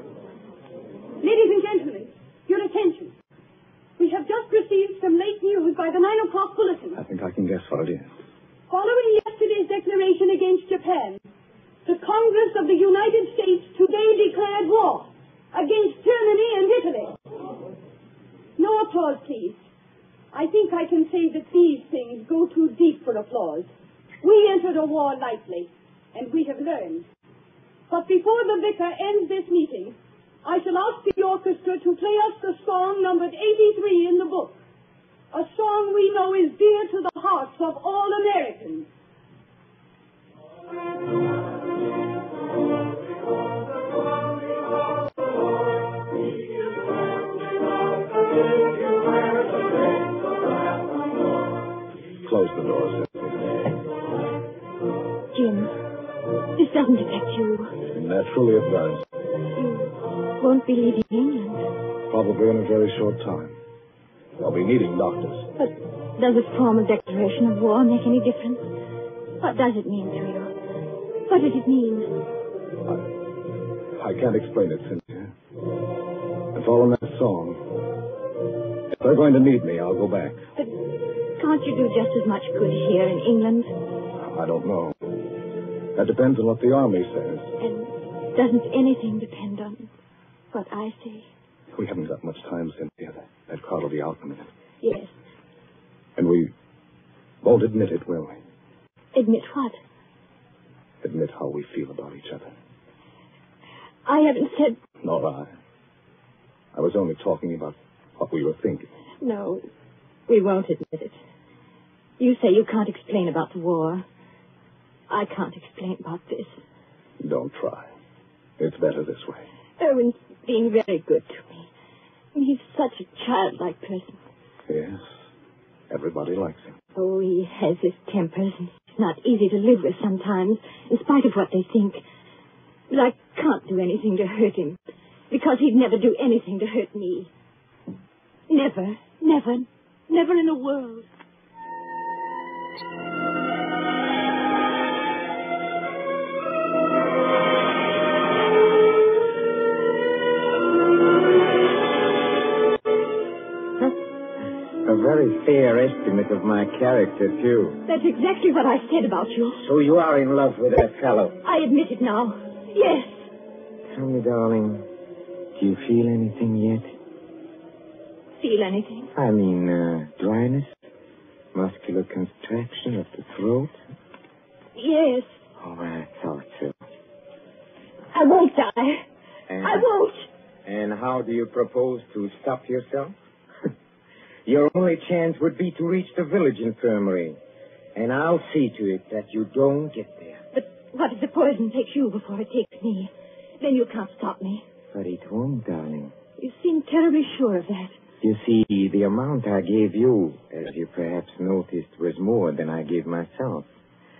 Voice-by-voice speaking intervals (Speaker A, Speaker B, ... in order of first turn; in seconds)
Speaker A: 1.2-3.1, 4.0-7.0, 8.7-11.2, 11.8-17.2, 18.6-19.6, 20.3-23.7, 24.2-27.1, 27.9-34.6, 35.3-38.9
Speaker B: 6.9-8.1, 52.2-53.7, 57.9-59.0, 62.1-63.6, 64.4-65.5, 74.0-75.3, 76.5-77.6, 78.9-80.4, 84.2-85.2, 85.9-87.5, 91.7-94.5, 96.2-96.5, 97.4-98.4, 101.0-102.5, 105.0-105.5, 106.7-108.9, 117.2-117.9, 118.6-119.5, 124.7-125.0, 125.9-126.8
Speaker C: 55.3-55.7, 56.5-57.8, 59.5-61.7, 65.6-68.7, 69.4-70.5, 71.2-72.1, 80.5-80.8, 81.3-83.7, 87.6-89.9, 90.5-91.3, 94.8-95.1, 99.1-99.8, 104.0-104.8, 109.2-109.7, 110.3-111.2, 112.2-114.0, 115.1-116.6, 119.8-121.7, 122.3-124.2, 126.9-132.0, 132.9-134.8, 135.3-137.3, 138.5-141.1, 157.8-159.6, 161.4-163.2, 168.4-169.1, 174.8-175.4, 178.1-179.0, 179.6-180.3, 190.5-194.6, 196.4-198.0
Speaker D: 154.8-157.8, 159.6-161.4, 163.9-164.9, 165.5-166.9, 169.1-170.8, 171.5-173.8, 175.6-176.8, 179.5-179.9, 180.6-183.7, 184.4-187.4, 187.9-190.4, 194.9-196.1, 198.2-203.7